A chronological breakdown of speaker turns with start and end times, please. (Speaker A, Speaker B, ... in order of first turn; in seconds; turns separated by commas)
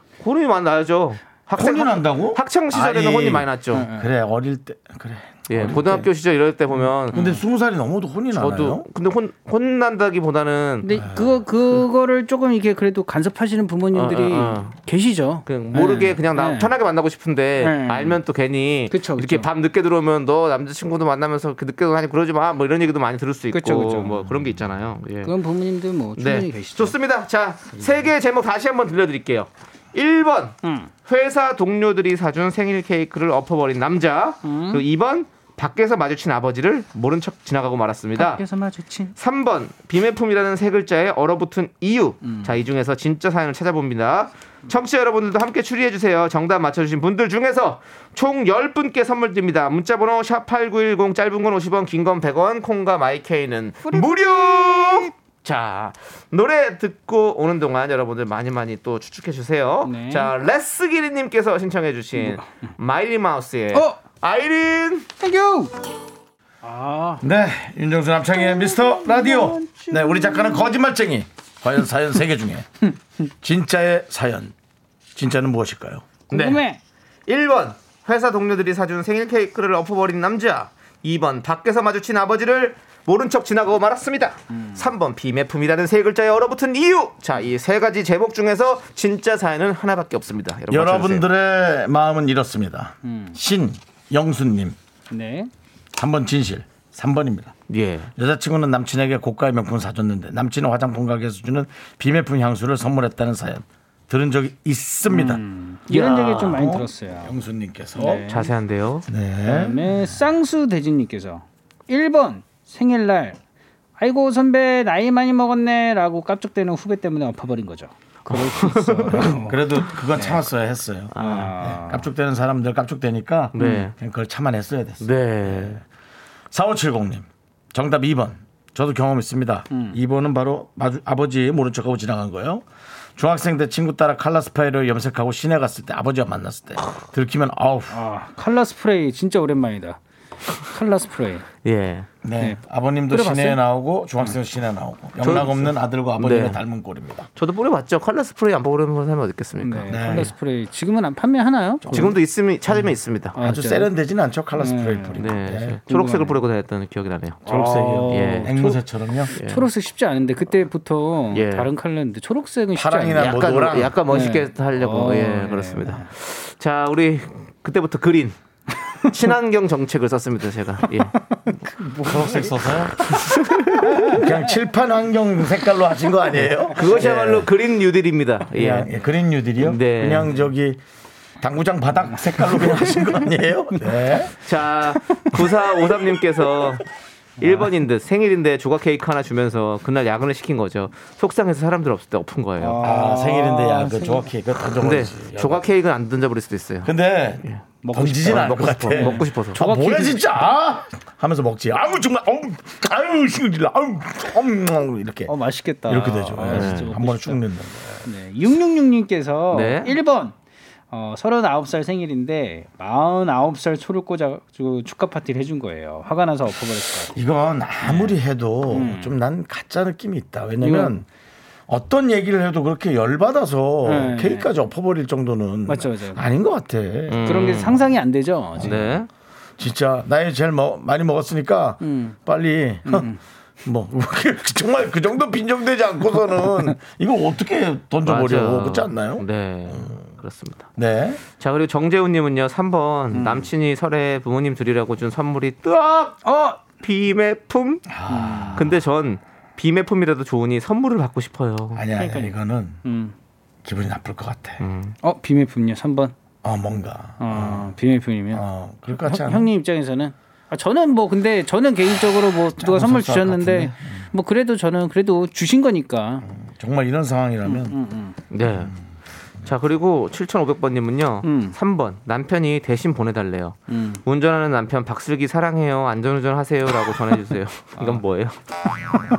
Speaker A: 0.2-3.9, Speaker B: 1.6-6.0, Speaker C: 3.7-4.1, Speaker A: 5.5-7.2, Speaker B: 7.1-8.9, Speaker C: 7.1-7.4, Speaker A: 8.3-11.0, Speaker C: 10.8-16.7, Speaker B: 11.0-11.4, Speaker A: 13.9-14.8, Speaker A: 15.4-25.3, Speaker C: 17.6-18.2, Speaker C: 18.9-19.5, Speaker C: 23.5-24.2, Speaker C: 25.2-27.0, Speaker A: 26.2-38.4, Speaker C: 30.6-30.9, Speaker C: 34.4-34.8, Speaker C: 38.2-39.1, Speaker A: 39.2-65.1, Speaker C: 42.2-42.6, Speaker C: 53.9-55.1, Speaker C: 59.8-60.3, Speaker C: 62.2-62.5, Speaker C: 63.7-64.0, Speaker C: 65.2-65.7, Speaker C: 66.6-67.2, Speaker B: 67.2-72.7, Speaker C: 68.3-70.8, Speaker B: 73.4-74.5, Speaker B: 75.2-76.1, Speaker C: 76.3-76.8, Speaker A: 76.3-76.6, Speaker A: 77.3-91.3, Speaker C: 84.5-84.9, Speaker B: 90.7-94.8, Speaker C: 93.0-93.4, Speaker C: 95.1-95.5, Speaker B: 96.0-97.5, Speaker A: 97.7-98.1, Speaker B: 98.2-105.4, Speaker C: 105.1-107.3, Speaker A: 105.9-106.5, Speaker B: 106.4-108.3, Speaker C: 108.0-108.5, Speaker A: 108.3-109.1, Speaker B: 109.1-109.9, Speaker C: 109.4-113.4, Speaker C: 114.0-120.4, Speaker A: 118.3-119.4, Speaker B: 119.2-125.8, Speaker A: 121.1-121.5, Speaker C: 121.2-122.1, Speaker A: 123.5-123.9, Speaker C: 123.6-123.8, Speaker A: 125.0-125.8, Speaker B: 126.5-132.6, Speaker C: 129.7-130.0, Speaker B: 133.2-138.0, Speaker C: 137.9-140.0, Speaker C: 140.6-141.4, Speaker A: 141.6-142.1, Speaker B: 142.2-147.3, Speaker C: 142.4-143.6, Speaker A: 145.2-146.6, Speaker A: 147.4-150.3, Speaker C: 149.6-152.2, Speaker B: 149.9-150.3, Speaker B: 151.8-152.2, Speaker A: 151.9-153.4, Speaker B: 152.7-155.8, Speaker C: 153.3-153.9, Speaker C: 154.6-155.3, Speaker A: 155.2-157.5, Speaker C: 155.9-156.4, Speaker C: 157.4-163.4, Speaker B: 157.5-159.3, Speaker A: 158.1-158.7, Speaker A: 159.3-159.7, Speaker A: 161.3-161.7, Speaker B: 162.8-163.9, Speaker A: 163.2-168.3, Speaker C: 164.0-166.1, Speaker A: 169.1-171.1, Speaker C: 171.3-174.5, Speaker B: 172.0-173.0, Speaker A: 173.2-173.7, Speaker B: 174.1-177.5, Speaker A: 176.7-178.9, Speaker B: 178.5-180.8, Speaker A: 179.6-180.3, Speaker B: 181.4-184.3, Speaker C: 182.2-184.3, Speaker A: 184.4-186.8, Speaker C: 185.1-186.0, Speaker A: 187.4-192.8, Speaker C: 187.4-187.7, Speaker C: 192.6-194.3, Speaker B: 192.8-195.6, Speaker A: 194.8-196.9, Speaker B: 196.8-205.3, Speaker C: 197.8-200.6, Speaker A: 198.2-199.6, Speaker C: 205.3-207.4, Speaker B: 205.9-208.1, Speaker A: 206.5-206.9, Speaker C: 208.1-210.3, Speaker A: 209.5-210.0, Speaker C: 210.9-217.2, Speaker B: 217.1-221.1, Speaker C: 217.8-218.2, Speaker C: 218.7-219.2, Speaker C: 220.6-221.0, Speaker B: 221.7-227.6, Speaker C: 223.8-224.5, Speaker C: 225.7-226.3, Speaker A: 227.1-227.8, Speaker C: 227.2-228.9, Speaker B: 228.6-229.0, Speaker A: 228.6-229.1, Speaker B: 229.6-233.1, Speaker C: 231.8-232.2, Speaker C: 232.8-233.2, Speaker B: 233.6-239.9, Speaker A: 238.0-240.7, Speaker B: 240.8-241.2, Speaker A: 241.4-246.2, Speaker C: 243.2-243.5, Speaker C: 246.2-246.6, Speaker A: 246.8-247.9, Speaker B: 247.9-248.8, Speaker C: 248.1-248.7, Speaker A: 248.6-251.8, Speaker B: 251.7-252.8, Speaker C: 251.9-253.2, Speaker B: 253.6-254.6, Speaker A: 254.6-254.9, Speaker C: 255.0-256.1, Speaker B: 256.4-257.7, Speaker C: 257.2-266.3, Speaker B: 258.3-259.5, Speaker B: 262.6-264.0, Speaker B: 266.2-267.8, Speaker C: 267.4-268.2, Speaker A: 268.3-268.7, Speaker B: 268.5-268.8, Speaker A: 269.4-278.4, Speaker C: 271.2-271.6, Speaker C: 273.7-274.0